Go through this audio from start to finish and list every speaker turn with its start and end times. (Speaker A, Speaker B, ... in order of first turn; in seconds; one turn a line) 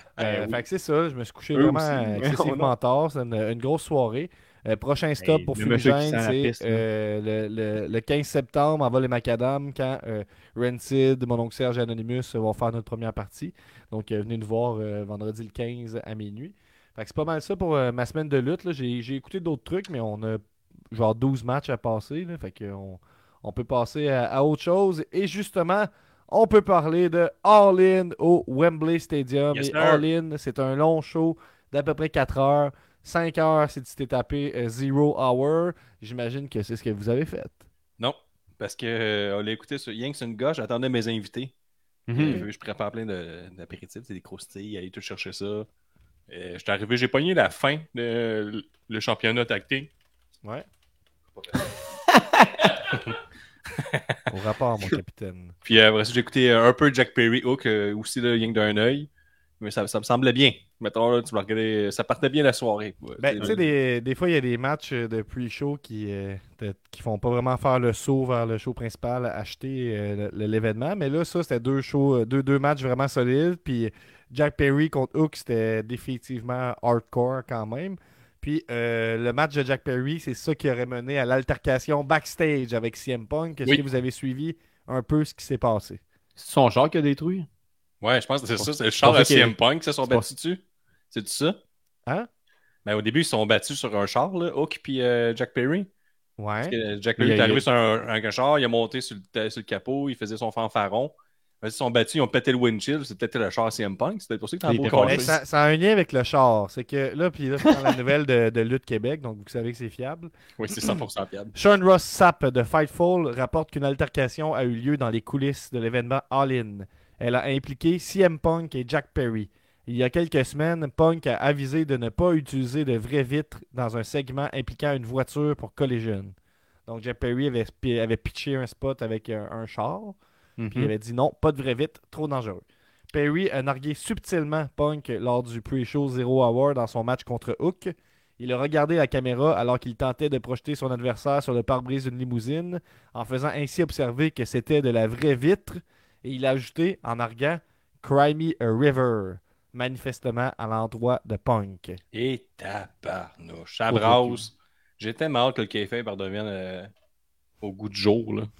Speaker A: 0.2-37.6
Speaker B: 0.2-0.6
Speaker B: 1.5-2.7
Speaker B: 5.2-6.8
Speaker C: 29.5-30.0
Speaker C: 38.0-41.5
Speaker B: 42.1-42.5
Speaker C: 42.1-45.7
Speaker A: 42.2-42.5
Speaker C: 46.3-49.9
Speaker C: 51.4-51.7
Speaker B: 52.1-52.5
Speaker C: 52.9-53.1
Speaker C: 53.8-54.0
Speaker A: 54.3-55.5
Speaker C: 55.6-59.1
Speaker C: 59.6-63.6
Speaker A: 63.2-86.0
Speaker B: 86.4-87.5
Speaker C: 88.0-91.6
Speaker B: 88.6-90.3
Speaker C: 92.8-95.9
Speaker A: 96.4-96.8
Speaker C: 96.6-105.3
Speaker B: 97.2-97.6
Speaker B: 104.7-105.4
Speaker A: 105.0-110.3
Speaker C: 110.6-111.5
Speaker A: 111.5-130.2
Speaker C: 130.6-130.9
Speaker A: 130.7-152.0
Speaker C: 152.1-156.9
Speaker B: 153.9-154.4
Speaker C: 157.6-158.5